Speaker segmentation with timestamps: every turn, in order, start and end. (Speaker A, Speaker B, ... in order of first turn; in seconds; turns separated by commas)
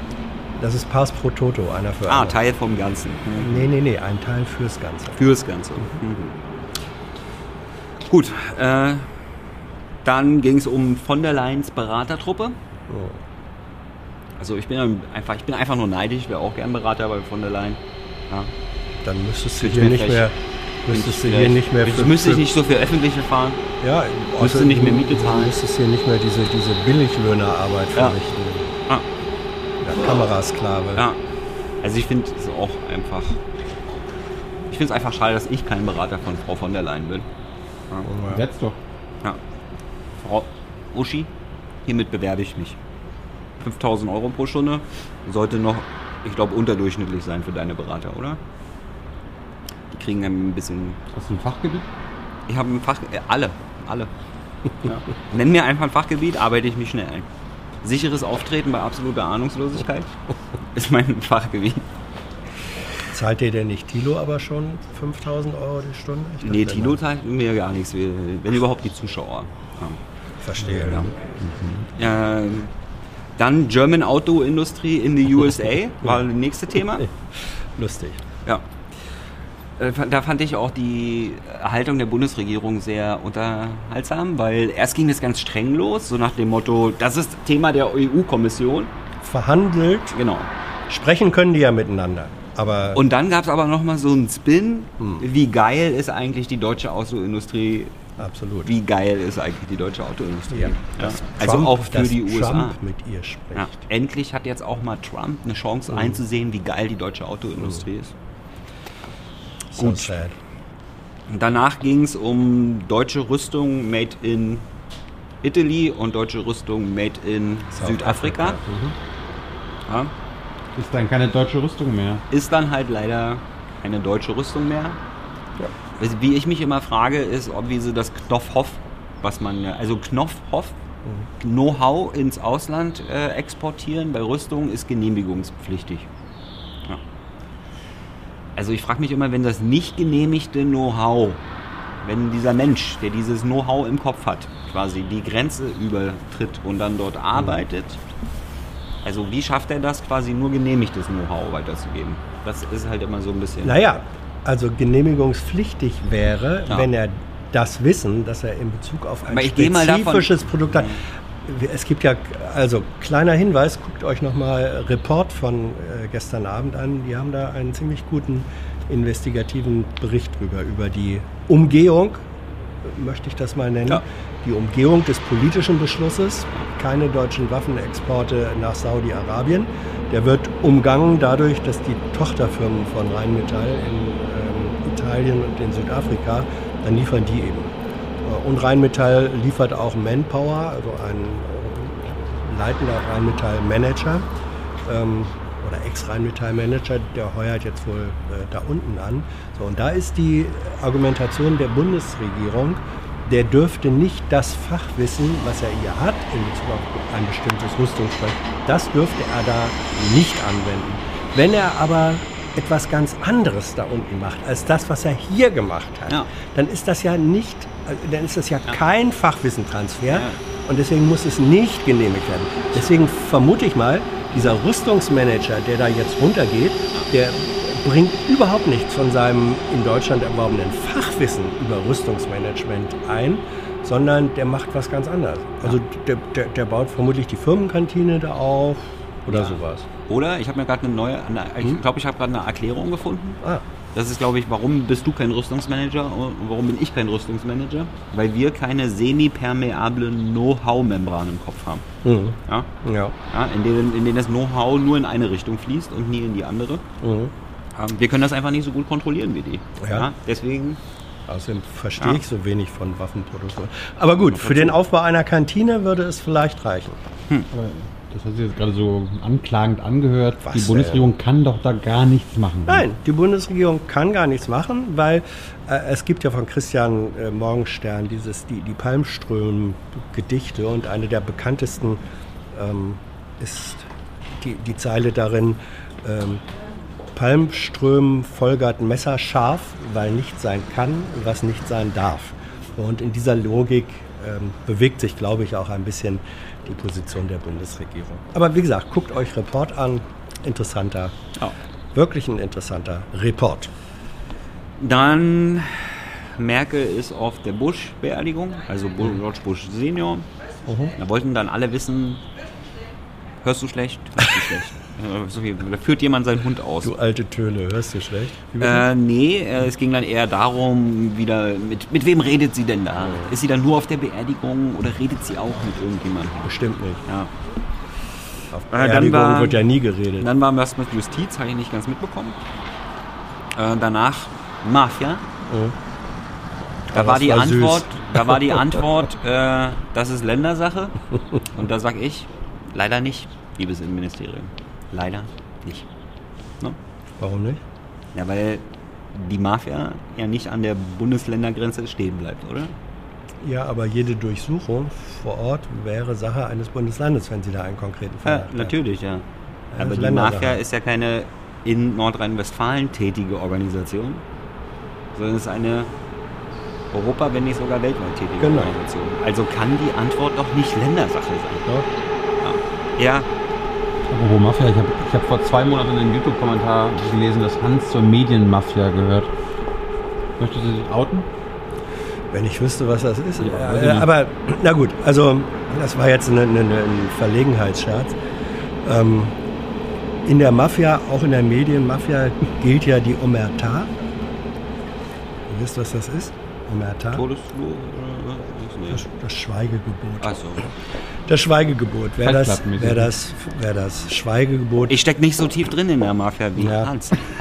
Speaker A: 0.6-2.4, Speaker B: 2.1-3.7, Speaker A: 3.4-5.2, Speaker B: 5.2-6.3, Speaker B: 8.1-9.1, Speaker B: 10.0-12.6, Speaker A: 12.9-13.2, Speaker B: 14.4-18.5, Speaker A: 19.0-22.5, Speaker B: 19.6-20.3, Speaker B: 20.9-23.6, Speaker A: 23.8-28.7, Speaker B: 24.4-25.6, Speaker A: 29.8-31.1, Speaker B: 31.8-33.4, Speaker B: 34.7-37.3, Speaker A: 38.0-38.4, Speaker C: 38.3-38.8, Speaker B: 40.2-41.3, Speaker B: 41.9-42.8, Speaker B: 43.6-48.4, Speaker B: 49.9-51.0, Speaker C: 51.1-51.9, Speaker B: 52.5-54.1, Speaker B: 54.8-57.3, Speaker B: 57.8-60.1, Speaker B: 60.7-61.9, Speaker A: 63.1-67.0, Speaker B: 66.4-70.0, Speaker A: 70.4-71.1, Speaker B: 70.6-71.1, Speaker C: 71.4-71.8, Speaker B: 72.0-72.7, Speaker B: 73.4-77.1, Speaker A: 77.3-78.2, Speaker B: 79.8-88.9, Speaker A: 89.2-90.2, Speaker B: 90.1-90.5, Speaker A: 90.9-93.0, Speaker B: 92.9-98.0, Speaker A: 95.0-95.3, Speaker A: 98.2-98.7, Speaker B: 98.7-102.8, Speaker A: 100.5-103.8, Speaker B: 103.5-108.1, Speaker A: 105.9-106.2, Speaker A: 109.7-110.3, Speaker B: 109.8-110.1, Speaker B: 111.3-114.7, Speaker B: 115.4-118.6, Speaker A: 117.8-119.0, Speaker B: 119.9-120.1, Speaker C: 120.8-122.2, Speaker B: 122.3-125.0, Speaker B: 126.0-130.8, Speaker B: 131.4-136.1, Speaker B: 138.6-141.4, Speaker B: 142.0-148.0, Speaker B: 149.0-153.8, Speaker A: 153.6-172.2, Speaker B: 159.3-161.0, Speaker A: 172.8-194.3, Speaker A: 194.8-239.9, Speaker B: 220.1-220.4, Speaker B: 239.3-243.4, Speaker B: 243.9-251.9, Speaker A: 252.0-253.2, Speaker B: 253.3-256.8, Speaker A: 257.0-257.3, Speaker B: 257.8-260.8, Speaker A: 259.8-260.1, Speaker A: 261.3-267.0, Speaker B: 264.3-264.8, Speaker C: 267.5-272.9, Speaker A: 270.4-271.1, Speaker A: 272.7-282.0, Speaker A: 282.5-283.9, Speaker A: 284.4-286.4, Speaker A: 287.1-301.1, Speaker A: 301.9-303.7, Speaker B: 304.8-310.3, Speaker A: 310.7-310.9, Speaker B: 311.0-312.2, Speaker B: 313.4-316.9, Speaker A: 316.8-318.9, Speaker B: 318.6-326.5, Speaker A: 326.4-327.0, Speaker B: 327.1-327.3, Speaker A: 328.5-330.3, Speaker B: 328.7-329.6, Speaker B: 330.2-332.4, Speaker B: 333.6-335.2, Speaker A: 335.5-335.8, Speaker A: 336.9-338.6, Speaker B: 336.9-345.9, Speaker A: 347.2-347.6, Speaker B: 348.1-352.8, Speaker A: 353.4-358.8, Speaker B: 358.2-359.2, Speaker A: 359.7-360.6, Speaker B: 359.8-364.2, Speaker B: 365.1-365.9, Speaker B: 366.9-371.7, Speaker A: 368.4-368.7, Speaker B: 372.4-373.3, Speaker C: 374.1-379.3, Speaker C: 380.4-381.3, Speaker A: 382.3-388.2, Speaker C: 383.4-384.1, Speaker A: 388.8-389.4, Speaker A: 390.2-393.9, Speaker A: 395.5-397.2, Speaker B: 397.1-399.1, Speaker A: 398.9-405.0, Speaker B: 400.2-400.7, Speaker C: 402.2-403.1, Speaker B: 404.9-407.2, Speaker A: 406.6-406.9